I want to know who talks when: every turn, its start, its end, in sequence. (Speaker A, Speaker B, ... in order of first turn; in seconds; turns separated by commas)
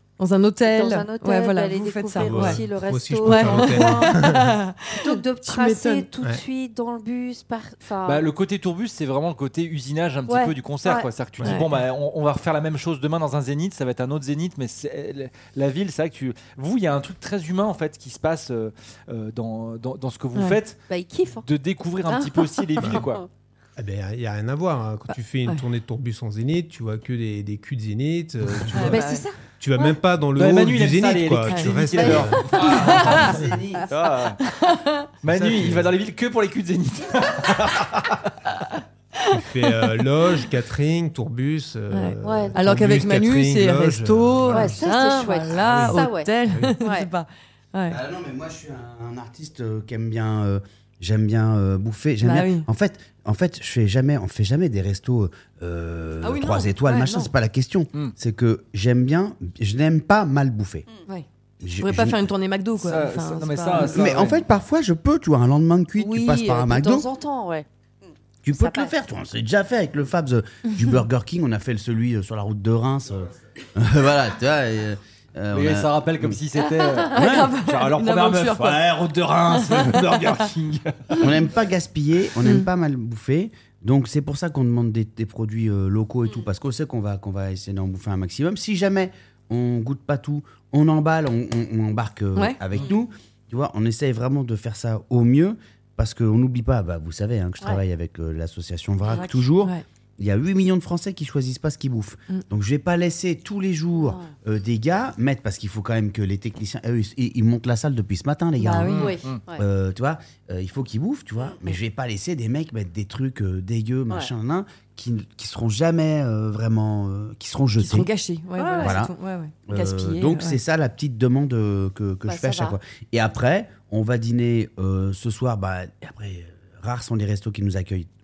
Speaker A: 0.2-2.6, Speaker B: 0.7-4.2, Speaker C: 2.2-4.6, Speaker A: 3.2-6.1, Speaker B: 4.9-8.3, Speaker D: 8.1-20.8, Speaker B: 10.3-11.1, Speaker A: 11.4-11.7, Speaker B: 20.9-21.5, Speaker D: 21.4-23.2, Speaker B: 22.1-23.3, Speaker C: 23.8-29.0, Speaker D: 28.5-28.8, Speaker A: 28.7-29.2, Speaker B: 28.8-29.4, Speaker C: 29.6-33.5, Speaker D: 30.4-33.2, Speaker B: 32.0-32.9, Speaker E: 32.6-33.9, Speaker A: 32.9-33.3, Speaker D: 33.9-34.4, Speaker A: 34.4-35.1, Speaker D: 35.2-38.2, Speaker C: 35.2-36.0, Speaker A: 39.2-39.9, Speaker C: 39.3-44.8, Speaker A: 41.9-48.0, Speaker B: 42.2-42.6, Speaker B: 44.5-47.1, Speaker C: 45.5-46.8, Speaker E: 47.9-60.9, Speaker A: 52.2-52.7, Speaker A: 56.2-57.3, Speaker E: 61.6-62.3, Speaker A: 61.8-64.3, Speaker D: 62.8-64.4, Speaker E: 63.8-67.1, Speaker B: 66.0-68.9, Speaker E: 68.4-76.4, Speaker D: 75.5-81.3, Speaker A: 77.0-78.9, Speaker E: 77.1-77.6, Speaker A: 79.5-80.5, Speaker E: 81.2-118.1, Speaker A: 99.1-99.8, Speaker B: 103.9-104.3, Speaker A: 108.6-109.1, Speaker D: 108.9-109.4, Speaker B: 109.0-109.6, Speaker B: 111.5-111.7, Speaker A: 117.8-120.6, Speaker B: 118.6-119.0, Speaker E: 118.8-119.1, Speaker E: 119.7-128.1, Speaker B: 122.2-122.8